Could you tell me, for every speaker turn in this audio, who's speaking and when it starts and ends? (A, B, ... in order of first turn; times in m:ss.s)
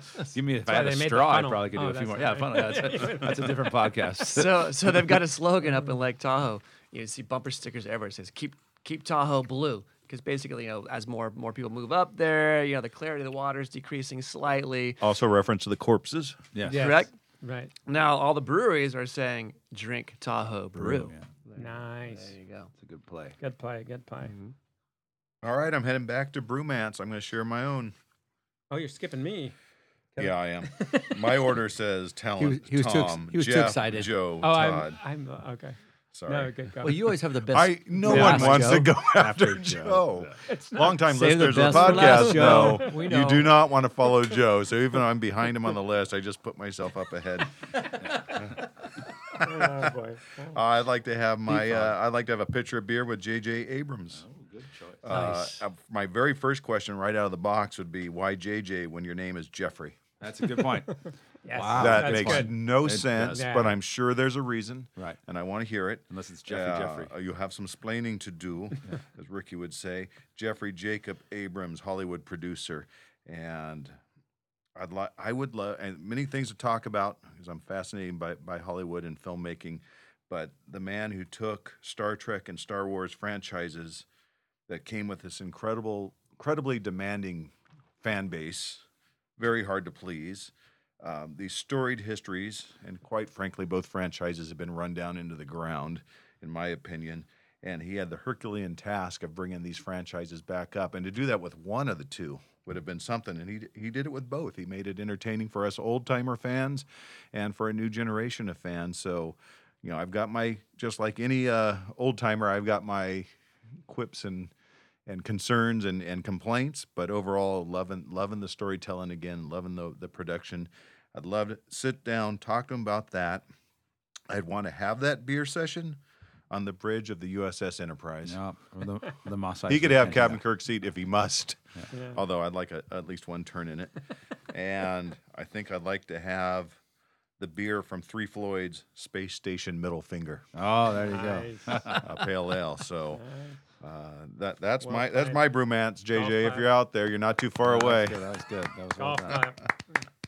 0:00.3-0:05.0 A
0:00.6-0:03.6 B
0:04.3-0:15.0 C
0:15.0-0:16.4 D
0:16.5-0:17.0 A
0:16.7-0:17.7 B
0:16.7-0:17.1 C
0:17.8-0:22.7 C
0:20.8-0:21.2 A
0:21.6-0:22.3 B
0:22.8-0:23.4 A
0:23.4-0:24.3 B
0:24.2-0:24.5 C
0:25.4-0:27.9 D
0:28.7-0:29.5 B
0:30.2-0:31.3 B
0:30.2-0:35.0 D
0:32.4-0:34.1 E
0:34.4-0:35.8 B
0:36.1-0:36.5 D
0:36.3-0:37.2 B
0:36.8-0:38.9 E
0:37.5-0:47.6 D
0:38.1-0:38.6 B
0:38.2-0:38.6 A
0:39.1-0:40.4 A
0:40.5-0:41.0 B
0:41.0-0:43.0 E
0:41.5-0:43.6 B
0:49.4-0:50.6 B
0:49.4-0:49.9 D
0:50.5-0:54.2 D
0:51.5-0:51.8 E
0:54.1-0:55.0 A
0:55.0-1:00.0 D
0:55.1-0:55.6 E
1:00.2-1:03.4 A
1:01.4-1:03.7 B
1:01.7-1:14.0 D
1:06.1-1:07.1 A
1:14.8-1:24.1 D
1:24.7-1:28.8 D
1:29.4-1:53.3 D
1:53.8-1:54.5 D
1:55.0-2:03.5 D
2:04.3-2:08.4 D
2:08.2-2:10.4 A
2:09.7-2:11.6 D
2:11.9-2:12.2 B
2:12.1-2:14.0 D
2:14.5-2:16.8 D
2:17.4-2:20.4 D
2:20.5-2:22.0 A
2:21.0-2:22.0 B
2:22.0-2:23.2 D
2:23.2-2:23.5 B
2:23.8-2:28.2 D
2:24.8-2:25.4 B
2:26.2-2:26.6 B
2:27.6-2:29.4 A
2:29.0-2:29.6 B